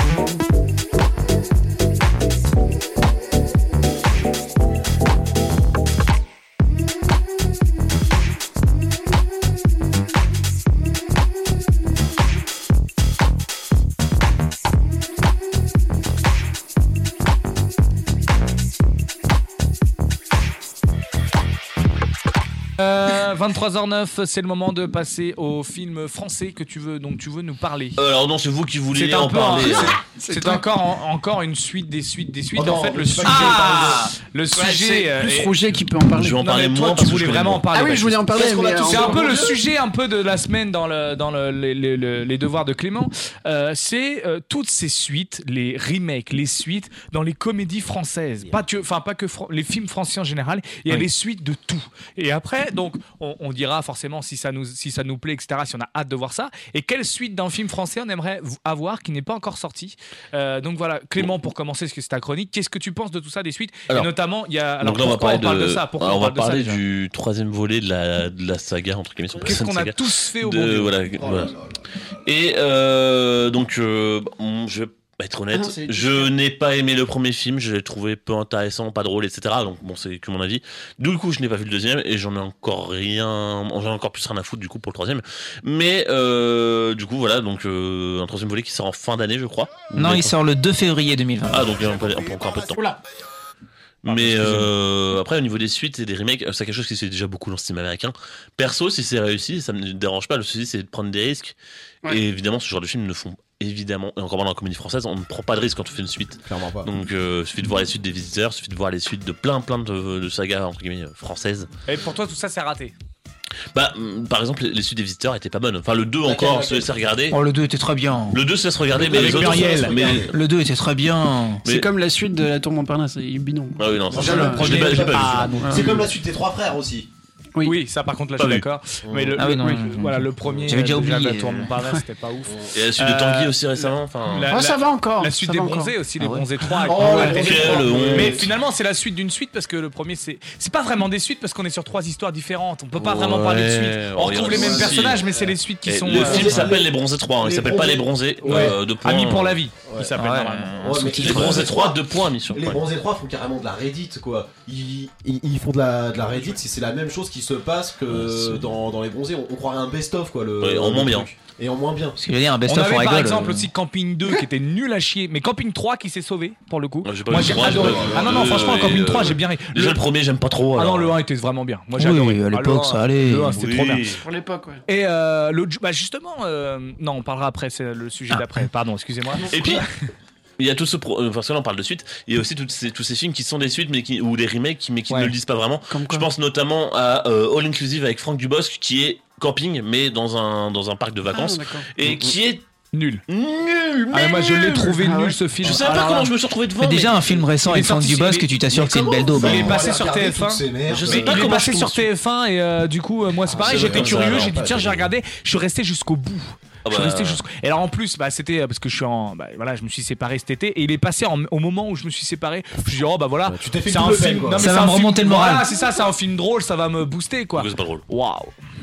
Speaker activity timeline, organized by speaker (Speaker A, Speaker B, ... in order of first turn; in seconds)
Speaker A: 22.8-28.0, 28.9-35.8, 36.4-66.8, 69.4-71.1, 111.8-112.9, 119.0-120.1, 124.3-125.8, 127.6-133.6, 134.3-146.8, 148.4-151.2, 162.6-170.0, 170.7-174.2, 174.9-179.9, 192.9-193.2, 194.1-196.3, 197.6-198.6, 199.3-218.5
Speaker B: 28.0-30.0, 36.1-37.6, 64.8-71.5, 72.2-90.3, 91.5-92.8, 94.0-111.7, 113.7-117.4, 118.3-120.3, 121.6-121.9, 123.8-125.7, 128.4-128.6, 132.7-134.6, 137.0-138.4, 142.9-145.2, 145.8-149.6, 151.2-152.8, 160.6-161.3, 167.0-171.2, 173.6-174.2, 179.5-179.8, 180.6-192.6, 193.3-194.9, 195.6-197.4, 200.9-202.1, 203.5-204.6, 206.8-207.4, 217.6-218.0
Speaker C: 30.2-30.6, 33.2-34.1, 89.9-91.7, 117.3-118.4, 120.3-121.6, 129.3-131.7, 136.2-136.4, 150.2-151.7, 158.2-158.6, 162.2-163.7, 172.0-173.6, 196.8-199.8, 214.6-215.7
Speaker D: 30.3-30.6, 34.5-36.4, 37.7-39.5, 75.5-76.3, 121.7-124.9, 125.6-126.1, 129.4-129.8, 134.4-135.9, 136.6-137.4, 174.2-174.8, 185.9-186.3, 191.3-191.9, 194.7-195.4
Speaker E: 32.5-34.0, 38.3-39.5, 71.2-71.7, 106.5-106.9, 116.2-116.9, 118.9-120.3, 124.1-127.1, 129.0-129.4, 136.8-138.5, 144.3-145.5, 146.1-148.8, 150.8-162.2, 167.4-168.8, 198.7-201.3, 203.4-205.1, 213.5-214.7